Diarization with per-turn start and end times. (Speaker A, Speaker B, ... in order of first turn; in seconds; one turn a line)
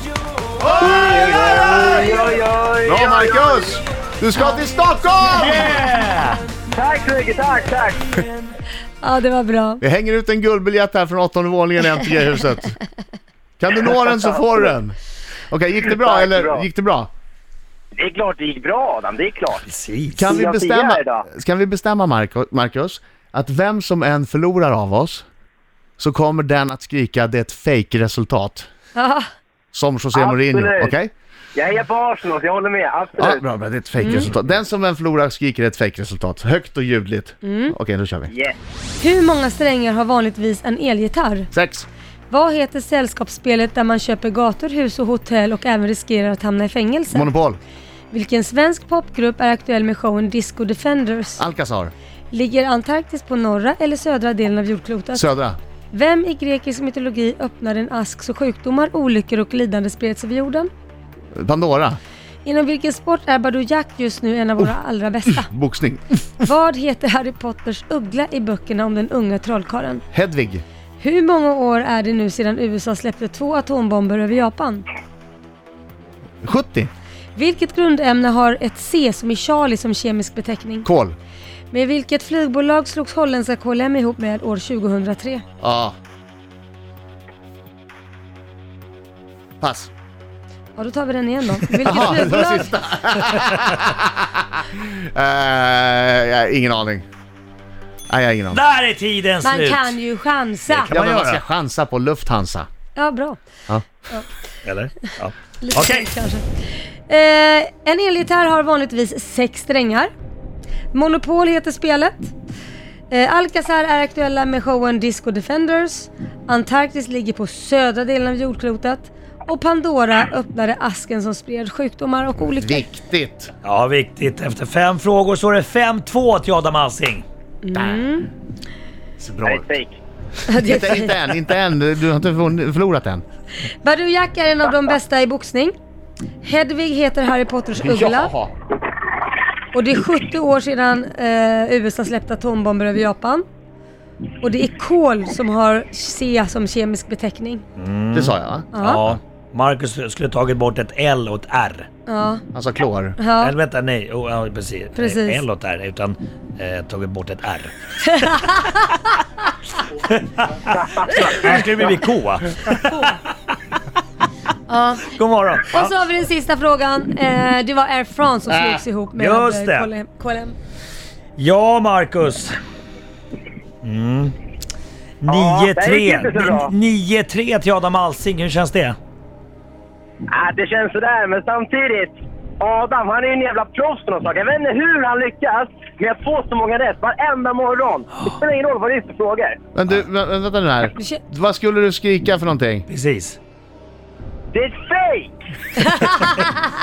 Speaker A: 0.6-2.2
Speaker B: 0.6-3.8
Speaker C: 1.6-2.0
Speaker A: 2.9-5.8
Speaker D: 4.3-4.6
Speaker C: 5.3-6.4
Speaker B: 6.7-8.1
Speaker D: 9.0-9.8
Speaker A: 9.8-12.8
Speaker A: 13.6-14.9
Speaker B: 14.1-14.8
Speaker A: 15.5-17.1
Speaker B: 15.9-16.7
Speaker B: 17.9-19.6
Speaker C: 19.6-20.3
Speaker A: 20.1-25.2
Speaker B: 20.2-21.2
Speaker A: 26.0-28.7
Speaker D: 28.9-29.3
Speaker A: 29.7-31.1
Speaker B: 30.1-30.9
Speaker B: 31.5-33.4
Speaker A: 33.2-38.3
Speaker D: 34.0-34.3
Speaker D: 37.4-37.7
Speaker B: 38.3-38.5
Speaker D: 39.0-41.5
Speaker A: 41.5-41.9
Speaker D: 42.3-47.3
Speaker A: 47.1-47.6
Speaker D: 48.1-51.4
Speaker A: 51.4-51.9
Speaker D: 52.3-55.2
Speaker A: 55.1-55.6
Speaker D: 55.9-60.7
Speaker A: 61.4-62.0
Speaker D: 62.4-65.5
Speaker A: 65.3-66.0
Speaker D: 66.4-70.0
Speaker A: 70.1-70.6
Speaker D: 71.0-74.8
Speaker A: 76.4-76.9
Speaker D: 77.3-80.9
Speaker A: 80.8-81.2
Speaker D: 81.7-85.4
Speaker A: 85.6-85.9
Speaker A: 89.6-89.9
Speaker D: 90.8-92.7
Speaker A: 91.8-97.0
Speaker C: 93.3-93.8
Speaker A: 98.1-98.6
Speaker C: 98.5-100.0
Speaker D: 99.4-100.9
Speaker C: 100.7-101.4
Speaker A: 100.8-102.7
Speaker D: 102.9-103.4
Speaker C: 104.6-106.1
Speaker D: 105.6-110.1
Speaker D: 110.9-112.3
Speaker D: 113.1-122.8
Speaker A: 122.5-123.5
Speaker C: 123.6-127.2
Speaker D: 127.6-128.3
Speaker A: 127.7-128.1
Speaker A: 129.2-129.7
Speaker B: 129.4-130.0
Speaker D: 130.5-131.1
Speaker A: 130.5-133.2
Speaker D: 133.6-135.7
Speaker D: 136.4-138.3
Speaker A: 137.8-138.5
Speaker D: 139.7-143.4
Speaker D: 144.4-147.6
Speaker C: 147.8-151.9
Speaker A: 148.1-148.7
Speaker D: 148.7-149.0
Speaker D: 152.1-152.4
Speaker A: 152.5-153.2
Speaker D: 153.2-153.5
Speaker C: 153.4-158.3
Speaker D: 154.9-155.4
Speaker D: 158.1-158.9
Speaker C: 160.1-163.2
Speaker B: 160.7-161.4
Speaker D: 164.7-165.1
Speaker C: 165.1-165.9
Speaker D: 165.7-170.5
Speaker A: 168.5-168.8
Speaker C: 169.2-169.9
Speaker C: 171.4-172.6
Speaker C: 173.8-174.3
Speaker C: 175.2-179.0
Speaker B: 175.3-176.7
Speaker B: 180.2-189.6
Speaker A: 189.7-192.9
Speaker D: 190.9-191.2
Speaker C: 192.9-193.4
Speaker B: 194.5-195.3
Speaker D: 195.8-196.7
Speaker C: 196.0-196.4